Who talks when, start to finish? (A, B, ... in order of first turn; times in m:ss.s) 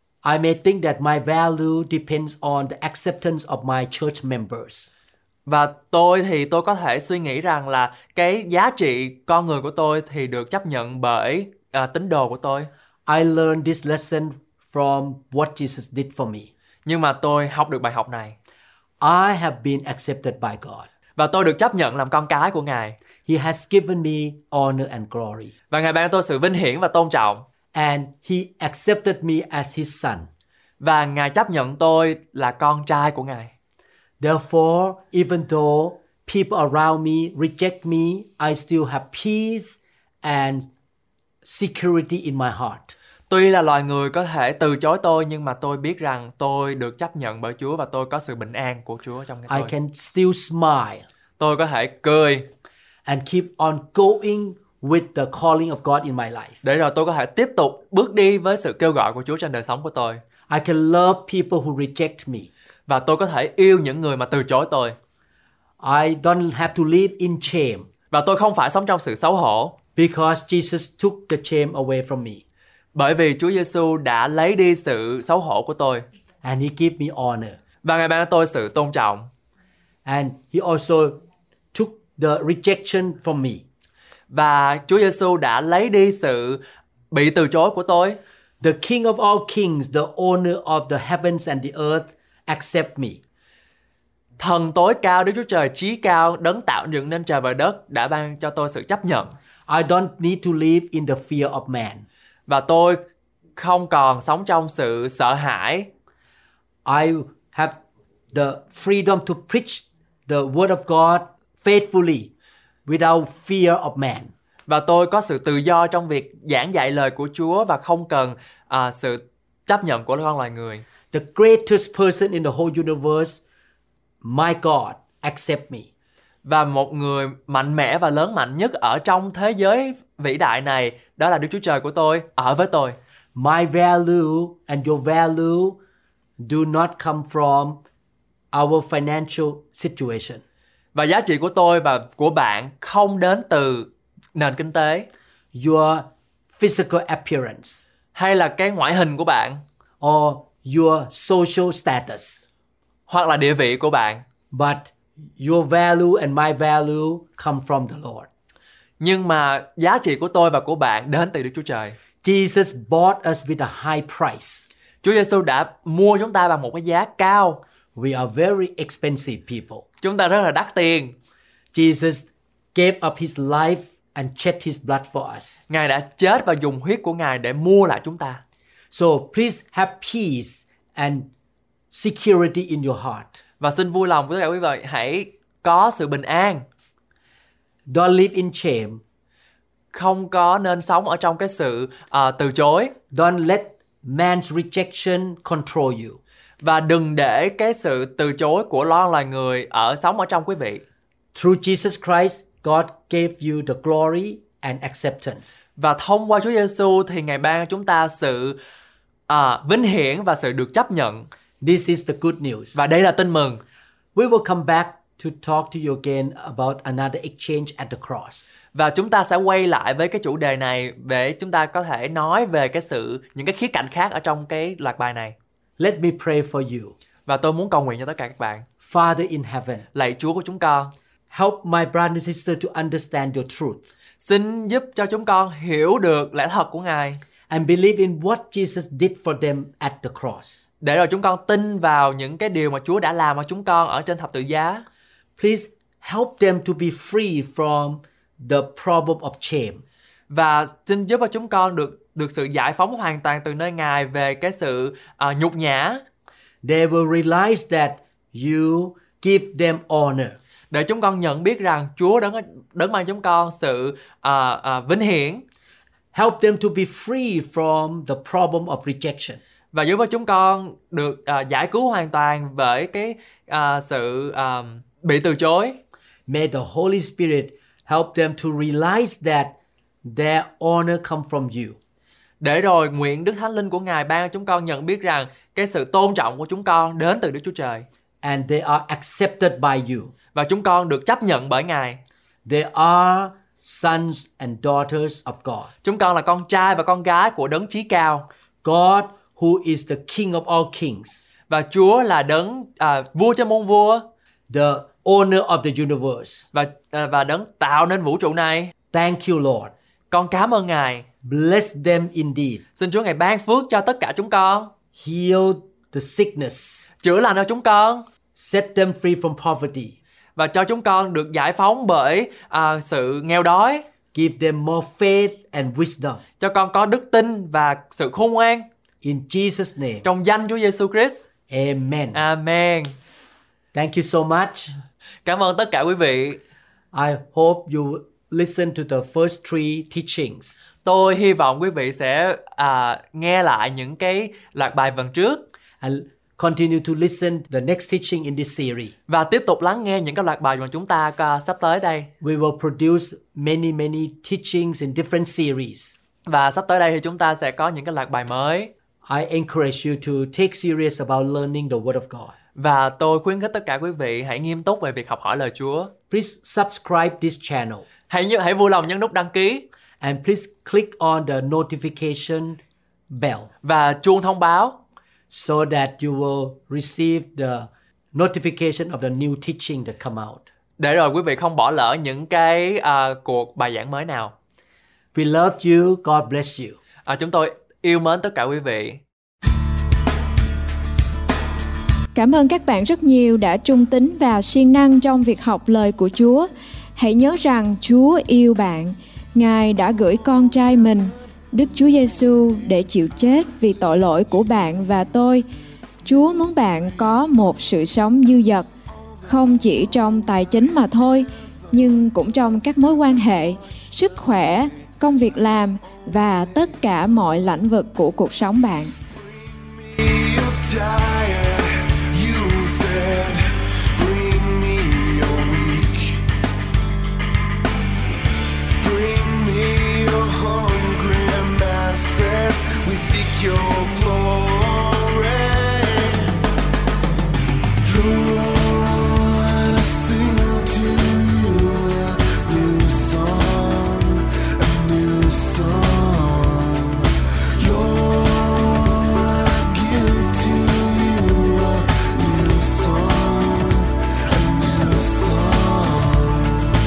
0:00.2-0:04.9 A
0:05.5-0:12.7 B
0:13.1-0:16.5 A
0:16.8-0:18.4 B
0:19.0-0:20.9 A
0:21.2-0:23.0 B
0:23.2-0:25.5 A
0:25.7-0:27.5 B
0:27.7-0:30.3 A
0:30.8-0:33.5 B
0:34.2-0:40.7 A
0:41.4-0:43.0 A
0:43.3-0:49.7 B
0:49.5-0:51.1 A
0:51.4-0:52.5 B
0:53.0-0:56.6 A
0:56.6-1:00.2 B
1:00.5-1:02.5 A
1:02.9-1:05.0 B
1:05.8-1:07.9 A
1:08.1-1:09.8 B
1:10.0-1:12.4 A
1:12.9-1:16.1 B
1:16.4-1:17.6 A
1:17.8-1:19.3 B
1:20.0-1:21.2 A
1:21.7-1:23.6 A
1:24.3-1:28.2 B
1:28.6-1:33.2 A
1:34.4-1:39.4 B
1:39.7-1:42.1 A
1:42.5-1:43.0 B
1:43.6-1:45.9 B
1:46.8-1:47.8 A
1:48.3-1:52.3 A
1:52.9-1:54.3 A
1:54.7-2:00.8 B
2:01.1-2:03.4 A
2:04.2-2:05.9 A
2:06.4-2:13.0 B
2:13.4-2:15.8 A
2:16.4-2:17.8 A
2:18.5-2:20.4 A
2:20.9-2:25.1 B
2:25.5-2:27.8 A
2:28.2-2:29.6 B
2:30.0-2:32.4 A
2:33.1-2:34.2 B
2:34.5-2:38.3 A
2:39.0-2:42.0 B
2:42.2-2:44.7 A
2:45.0-2:47.6 B
2:48.0-2:49.9 A
2:50.0-2:51.2 B
2:51.7-2:55.6 A
2:55.7-2:58.4 B
2:58.9-3:01.3 A
3:01.9-3:03.4 A
3:03.6-3:06.7 B
3:07.9-3:09.0 A
3:09.9-3:12.9 B
3:13.1-3:16.2 A
3:16.6-3:20.8 B
3:21.3-3:25.6 A
3:25.8-3:28.6 B
3:29.3-3:31.3 B
3:31.6-3:32.8 A
3:32.7-3:33.6 B
3:34.2-3:38.5 A
3:38.7-3:45.4 B
3:45.8-3:47.0 A
3:47.3-3:48.7 B
3:48.8-3:49.9 A
3:49.9-3:50.9 B
3:51.3-3:53.9 A
3:54.2-3:57.2 B
3:57.5-4:00.7 A
4:00.8-4:04.8 B
4:05.4-4:09.8 A
4:10.3-4:16.0 B
4:16.6-4:20.4 A
4:20.7-4:25.4 B
4:26.1-4:29.4 A
4:29.7-4:35.8 B
4:36.3-4:41.8 A
4:42.4-4:47.9 B
4:48.2-4:50.1 A
4:50.3-4:52.0 B
4:52.5-4:55.7 A
4:55.8-4:58.3 B
4:58.6-5:01.2 A
5:01.5-5:04.0 B
5:04.5-5:06.5 A
5:06.5-5:08.7 B
5:08.9-5:09.7 A
5:10.1-5:11.1 B
5:11.2-5:12.6 A
5:12.8-5:14.7 B
5:15.0-5:16.9 A
5:17.0-5:18.0 B
5:18.4-5:20.0 A
5:20.4-5:23.9 B
5:24.1-5:26.2 A
5:26.4-5:28.7 B
5:29.0-5:30.1 A
5:30.0-5:31.2 B
5:31.5-5:32.2 A
5:32.1-5:33.0 B
5:33.7-5:34.8 A
5:35.2-5:36.4 B
5:36.9-5:40.6 A
5:40.8-5:45.5 B
5:45.8-5:48.9 A
5:49.1-5:52.1 B
5:52.2-5:55.9 A
5:56.3-5:58.7 B
5:59.0-6:02.4 A
6:02.6-6:05.9 B
6:06.1-6:07.9 A
6:08.1-6:09.6 B
6:10.0-6:13.5 A
6:13.6-6:14.8 B
6:15.3-6:20.5 A
6:20.8-6:24.3 B
6:25.1-6:26.8 A
6:27.1-6:29.0 B
6:32.1-6:45.5 C
6:46.0-6:48.7 C
6:49.2-6:58.9 C
6:59.1-7:06.2 D
7:08.8-7:16.4 D
7:17.8-7:36.7 D